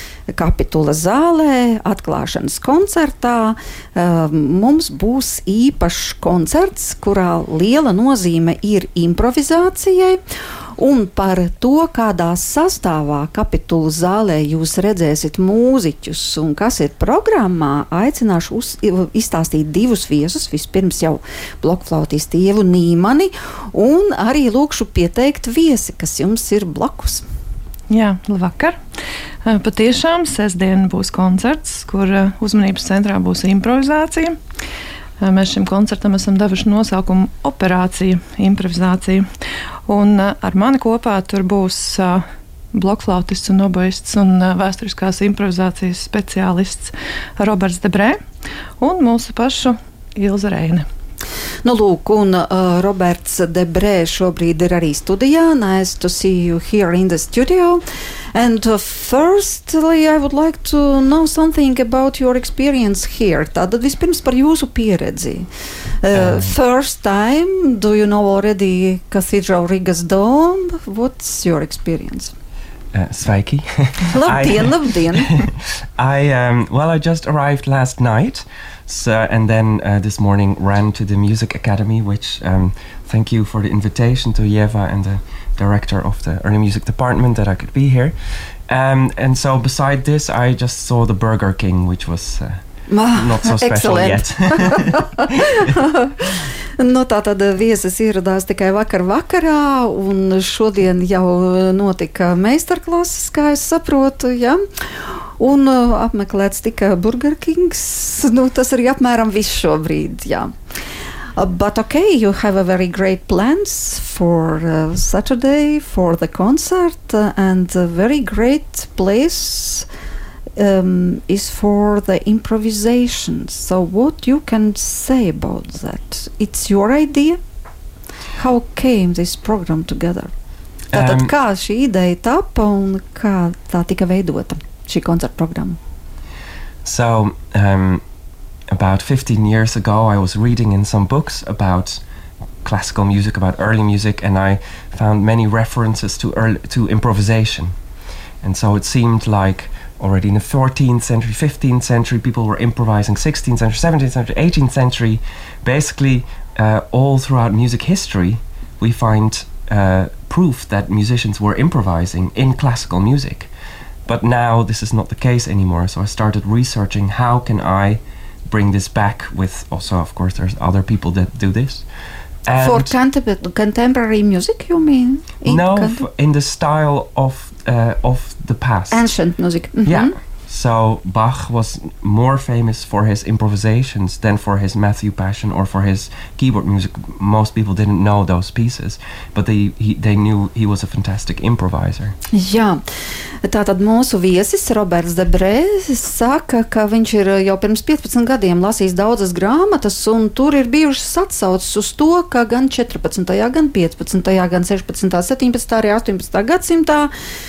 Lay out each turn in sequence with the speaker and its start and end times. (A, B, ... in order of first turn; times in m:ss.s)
0:00.3-0:10.2 A
0:10.8-0:27.2 A
0:27.9-0:28.8 B
0:29.4-0:34.3 B
0:35.2-0:39.2 B
0:39.9-0:48.2 B
0:48.8-0:50.8 B
0:51.6-0:57.8 A
0:58.3-1:05.4 A
1:06.0-1:12.3 A
1:06.1-1:06.5 C
1:12.9-1:15.4 C
1:14.1-1:15.4 A
1:16.0-1:35.4 C
1:32.9-1:50.5 A
1:51.4-1:59.8 A
2:00.6-2:07.4 A
2:08.4-2:10.3 A
2:10.9-2:11.3 C
2:10.9-2:15.8 A
2:16.8-2:18.0 C
2:18.7-2:22.0 C
2:22.6-2:27.7 C
2:28.4-2:43.5 C
2:44.0-2:51.8 C
2:52.4-2:52.9 C
2:52.6-2:56.0 A
2:55.4-2:59.0 C
2:58.9-3:00.1 A
2:59.8-3:12.1 C
3:12.3-3:12.8 A
3:13.4-3:27.1 A